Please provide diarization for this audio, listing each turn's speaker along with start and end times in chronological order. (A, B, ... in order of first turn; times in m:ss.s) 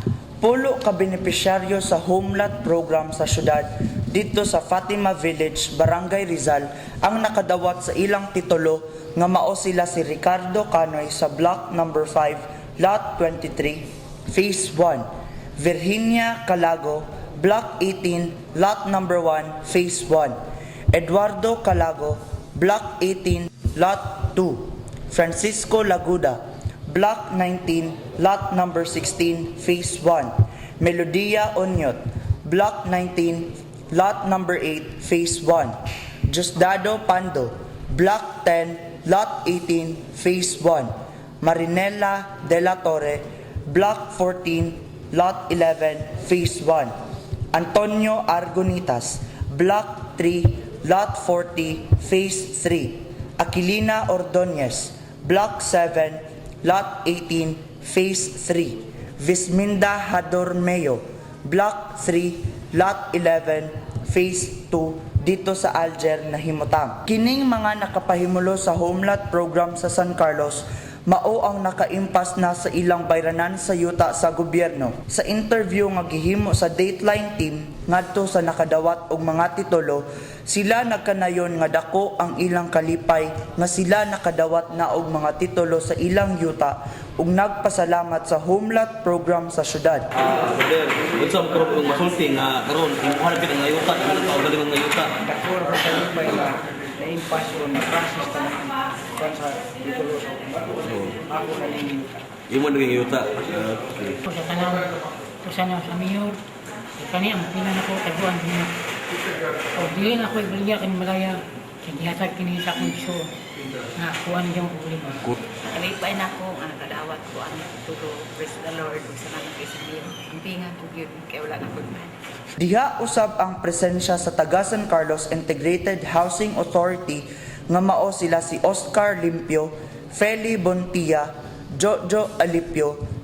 0:00.4-0:15.1 A
0:15.6-0:20.4 A
0:20.9-0:35.8 A
0:36.3-0:46.9 A
0:47.5-1:30.1 A
1:30.2-1:35.2 B
1:35.2-1:42.3 C
1:42.5-1:44.2 B
1:44.3-1:46.4 D
1:47.0-1:48.7 D
1:49.7-1:53.3 D
1:54.0-1:55.4 D
1:55.7-2:02.1 E
2:02.6-2:13.0 A